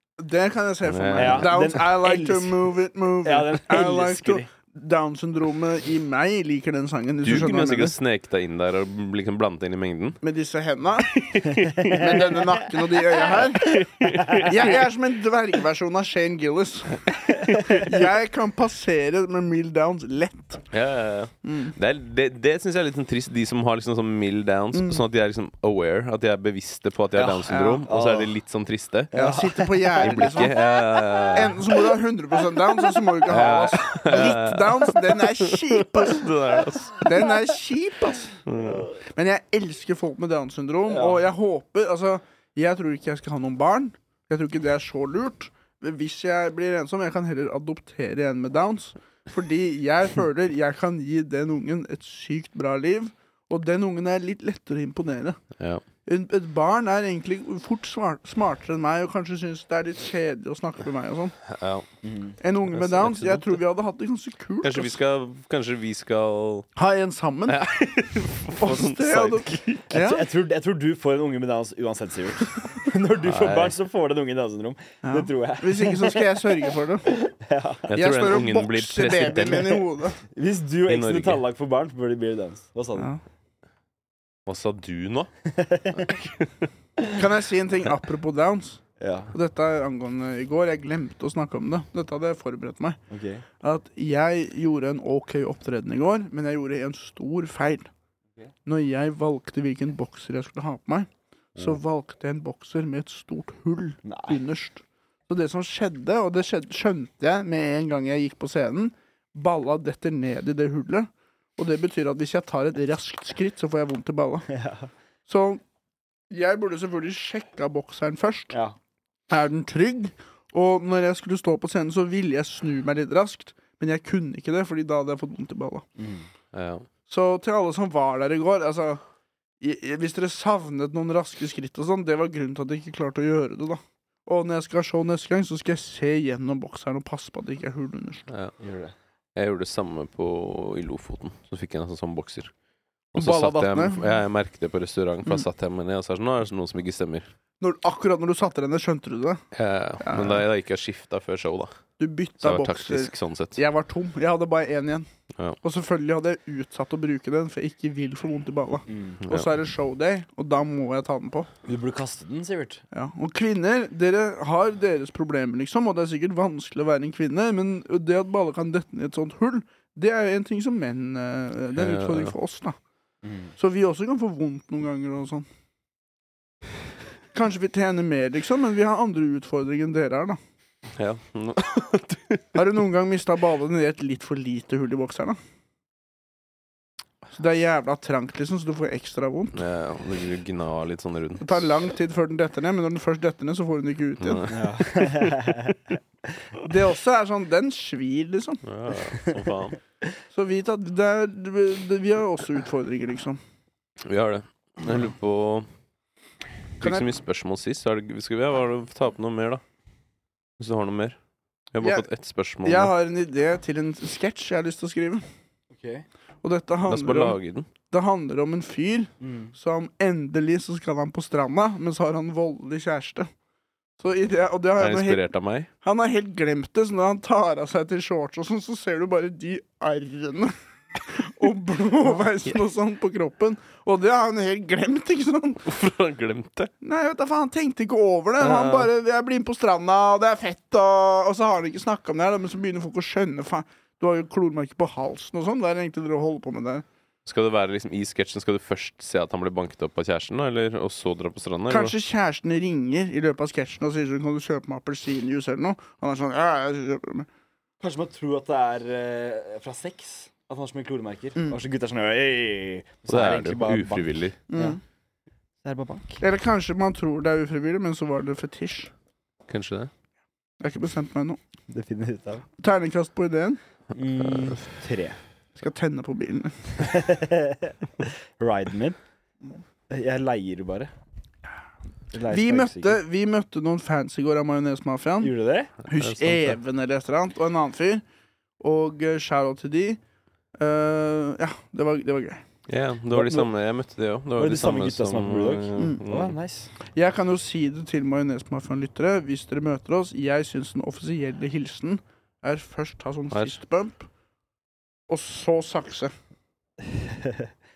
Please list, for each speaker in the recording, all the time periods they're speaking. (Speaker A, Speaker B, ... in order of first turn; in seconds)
Speaker A: 0.2-8.0, 10.2-11.2, 11.8-13.8, 14.4-20.7, 21.4-21.8, 24.7-25.0, 27.2-27.9, 29.1-30.6, 31.3-36.3, 37.0-38.4, 39.0-55.4, 56.0-61.4, 62.4-65.0, 66.8-67.6, 68.5-70.2, 75.0-77.1, 77.9-80.2, 87.1-88.8, 89.3-93.0, 93.6-97.9, 98.7-114.5, 115.3-115.6, 116.3-118.6, 119.3-125.8, 127.1-129.0, 129.6-138.3, 143.2-144.2, 147.6-149.4, 150.0-150.4, 152.0-155.1, 155.6-161.5, 162.9-172.8, 173.6-175.4, 177.3-180.4, 182.5-185.4, 187.3-189.6, 191.4-194.5, 196.6-198.6, 200.3-203.4, 206.8-207.1, 212.6-215.2, 216.4-217.4, 217.9-223.3, 224.0-225.2, 225.8-235.7, 236.8-246.8, 251.7-257.3, 264.5-264.8, 266.2-268.9, 270.6-271.4, 272.6-273.6, 275.6-276.9, 282.3-285.3, 285.8-288.0, 288.6-290.0, 290.6-292.4, 295.8-296.0, 296.8-304.1, 305.1-306.1
Speaker B: 0.8-1.5, 7.2-10.2, 11.1-12.5, 13.5-14.8, 17.3-17.8, 20.7-29.1, 30.0-31.6, 33.3-37.1, 38.5-38.9, 55.6-55.8, 61.5-61.9, 62.7-63.6, 64.6-66.7, 67.5-69.9, 73.2-73.7, 77.9-79.8, 80.9-81.4, 84.5-85.3, 85.9-86.5, 126.5-126.8, 138.3-138.5, 139.3-142.5, 143.1-147.2, 149.5-151.7, 152.4-153.6, 159.2-159.5, 171.8-172.3, 180.9-182.4, 189.5-191.7, 194.2-195.3, 198.6-199.8, 204.1-205.7, 206.8-209.6, 210.6-211.2, 211.7-212.9, 216.9-217.7, 224.8-225.7, 235.7-236.7, 238.4-238.9, 247.2-251.9, 263.1-264.4, 269.5-269.9, 285.9-286.6, 292.7-296.3
Speaker C: 1.1-2.6, 3.2-4.5, 14.0-14.5, 27.2-28.3, 29.1-31.5, 40.9-41.2, 62.0-62.4, 69.9-77.9, 80.3-83.1, 85.5-86.1, 89.0-89.3, 93.1-93.4, 104.0-104.4, 114.5-114.9, 126.0-126.2, 138.6-138.9, 158.9-159.2, 161.7-162.8, 173.2-173.5, 194.5-196.3, 199.2-199.4, 215.7-216.1, 219.2-219.5, 257.8-264.8, 265.6-266.2, 271.7-272.4, 273.9-275.2, 276.8-279.0, 279.9-280.9, 282.1-283.0, 285.2-285.7, 293.1-293.5, 294.4-296.7, 306.8-307.5